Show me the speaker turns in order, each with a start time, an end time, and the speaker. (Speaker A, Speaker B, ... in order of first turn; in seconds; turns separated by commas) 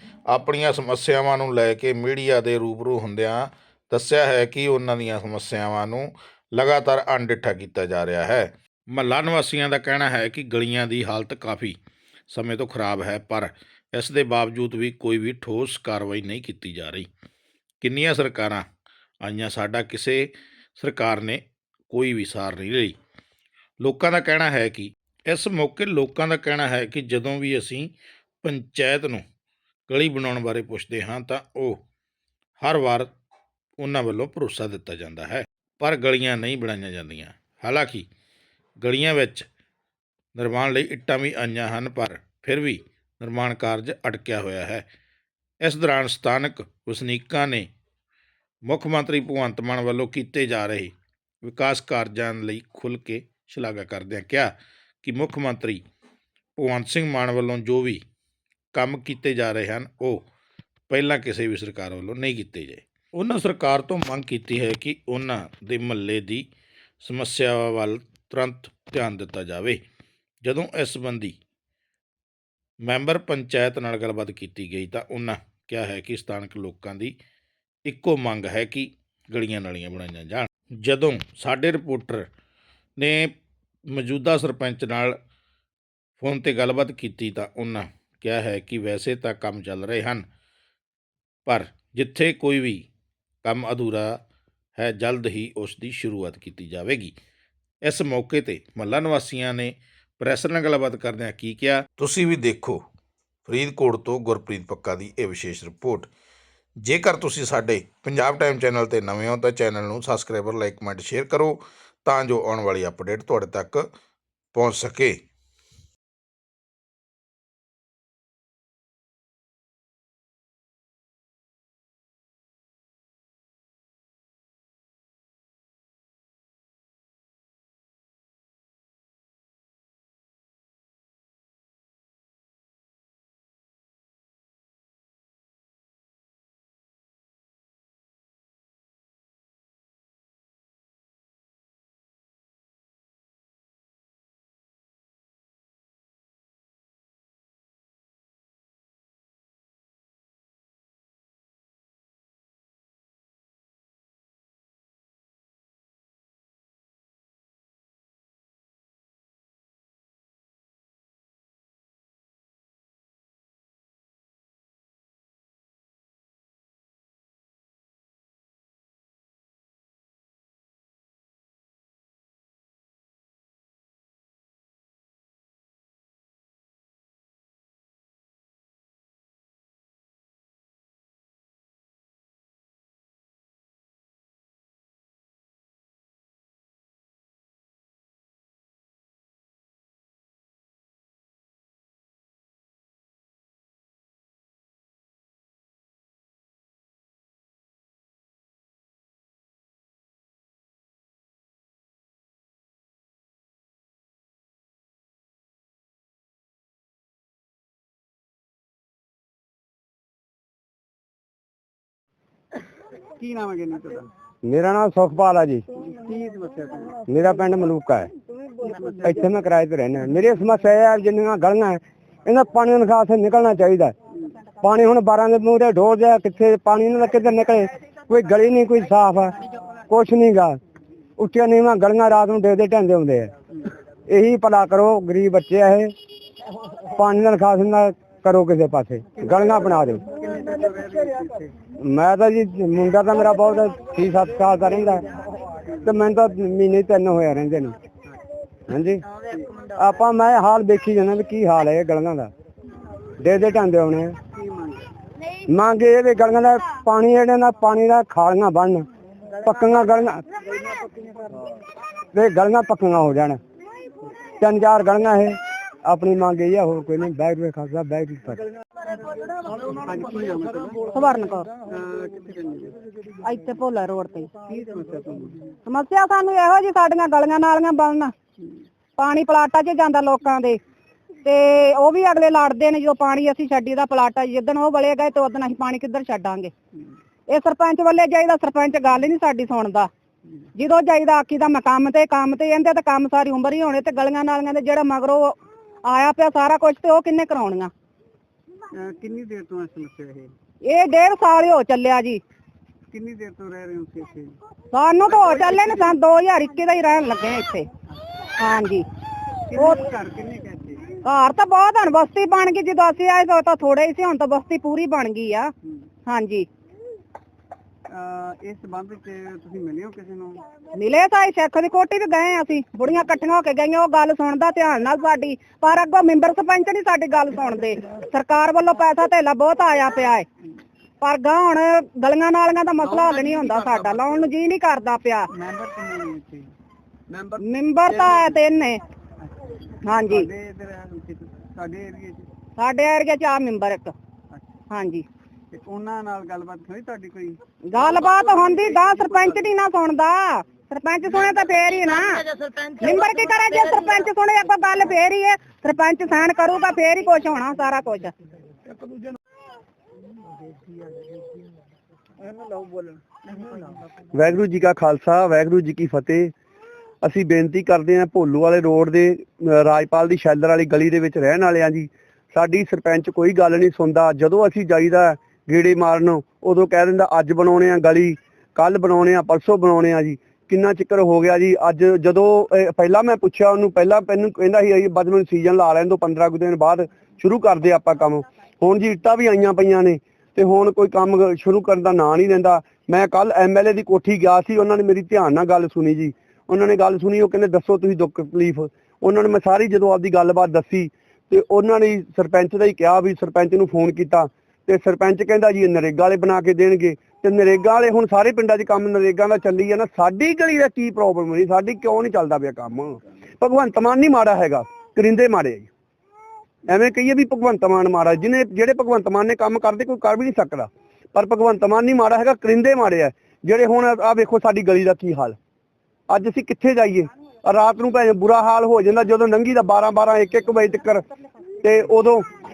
Speaker A: 0.3-11.8, Speaker A: 12.3-17.1, Speaker A: 17.8-18.6, Speaker A: 19.2-22.9, Speaker A: 23.8-27.9, Speaker A: 28.4-29.2, Speaker A: 29.9-31.8, Speaker A: 32.6-33.1, Speaker A: 33.8-38.1, Speaker A: 38.8-39.5, Speaker A: 40.3-44.8, Speaker A: 45.6-47.7, Speaker A: 48.6-54.5, Speaker A: 55.0-55.8, Speaker A: 56.6-58.0, Speaker A: 58.7-60.2, Speaker A: 60.9-66.4, Speaker A: 67.0-69.8, Speaker A: 70.4-71.4, Speaker A: 72.8-77.1, Speaker A: 77.8-82.3, Speaker A: 83.0-83.3, Speaker A: 83.9-85.2, Speaker A: 86.2-90.2, Speaker A: 91.5-92.9, Speaker A: 93.4-94.2, Speaker A: 94.8-97.1, Speaker A: 97.8-102.8, Speaker A: 103.5-106.1, Speaker A: 106.8-113.9, Speaker A: 114.5-115.2, Speaker B: 213.2-214.1, Speaker C: 214.4-215.6, Speaker B: 215.8-217.0, Speaker C: 217.1-218.1, Speaker B: 218.6-219.2, Speaker C: 219.0-223.9, Speaker C: 224.6-229.4, Speaker C: 229.9-230.6, Speaker C: 231.2-233.3, Speaker C: 234.1-235.9, Speaker C: 236.9-240.0, Speaker B: 240.1-241.5, Speaker C: 241.8-245.1, Speaker C: 245.8-247.7, Speaker C: 248.7-249.0, Speaker B: 249.2-249.7, Speaker C: 249.7-252.3, Speaker C: 253.2-254.2, Speaker B: 254.3-254.9, Speaker C: 255.5-258.9, Speaker C: 259.4-260.2, Speaker C: 262.1-263.4, Speaker C: 264.4-268.4, Speaker B: 269.4-270.9, Speaker D: 270.9-271.5, Speaker B: 271.6-272.8, Speaker D: 273.2-274.3, Speaker B: 274.4-275.5, Speaker D: 275.6-278.1, Speaker D: 279.0-280.6, Speaker D: 281.2-286.5, Speaker D: 287.3-289.9, Speaker D: 290.6-297.7, Speaker B: 298.7-300.3, Speaker D: 300.6-302.2, Speaker B: 302.9-304.4, Speaker D: 304.7-307.7, Speaker B: 305.2-305.8, Speaker D: 308.4-308.8, Speaker B: 309.5-311.0, Speaker D: 309.6-309.8, Speaker D: 311.0-315.5, Speaker D: 316.1-316.5, Speaker B: 317.9-320.4, Speaker D: 320.7-330.2, Speaker D: 331.0-335.3, Speaker E: 332.9-333.9, Speaker B: 335.3-336.5, Speaker E: 337.1-337.4, Speaker D: 337.4-338.8, Speaker E: 337.9-338.3, Speaker B: 339.2-342.3, Speaker D: 339.9-340.3, Speaker D: 342.6-343.9, Speaker D: 344.7-345.0, Speaker B: 345.5-347.4, Speaker D: 347.7-358.1, Speaker B: 348.4-349.3, Speaker E: 364.1-366.3, Speaker E: 367.0-415.7, Speaker E: 416.6-425.4, Speaker E: 426.1-431.0, Speaker E: 431.6-432.3